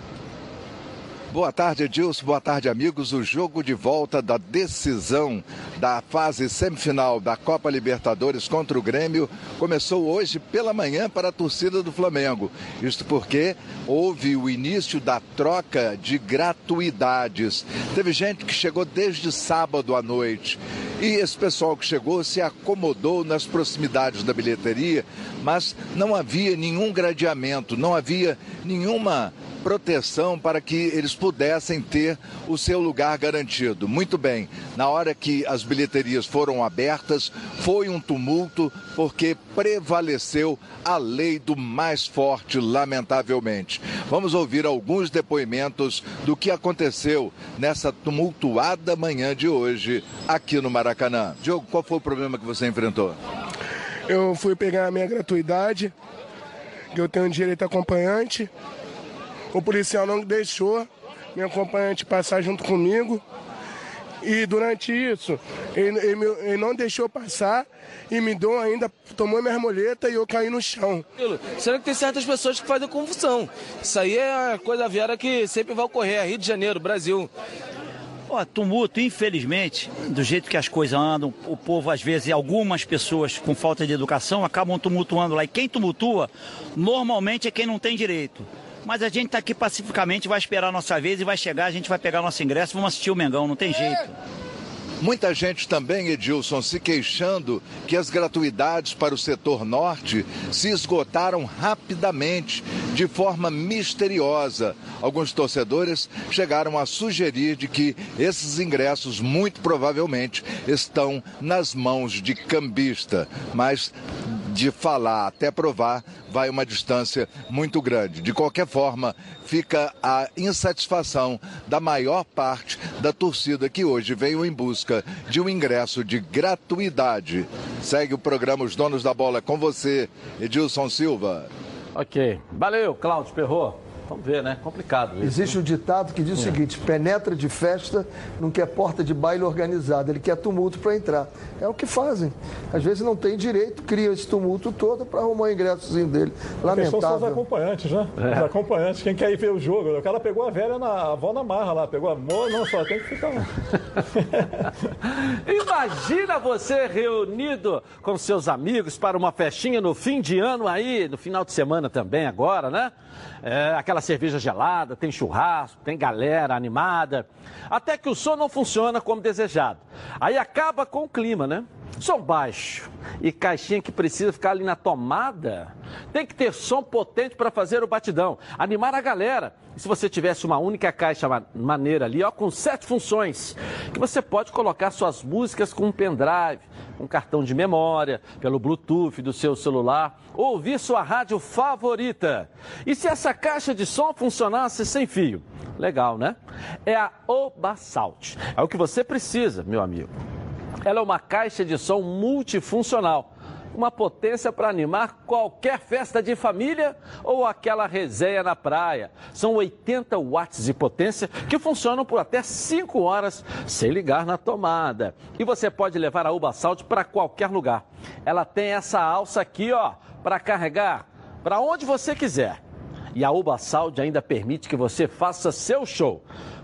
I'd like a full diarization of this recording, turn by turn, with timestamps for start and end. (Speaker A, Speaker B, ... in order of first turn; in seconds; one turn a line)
Speaker A: 1.3-53.1
Speaker B: 54.1-55.9
Speaker B: 56.9-58.5
Speaker B: 59.5-63.2
Speaker B: 64.2-71.0
Speaker C: 71.2-77.3
Speaker D: 78.3-94.1
Speaker A: 95.0-131.5
Speaker E: 131.9-135.6
Speaker F: 135.2-147.4
Speaker G: 146.7-153.5
Speaker E: 148.2-148.4
Speaker G: 154.1-154.7
Speaker E: 155.1-200.1
Speaker E: 200.8-222.6
Speaker E: 223.1-226.2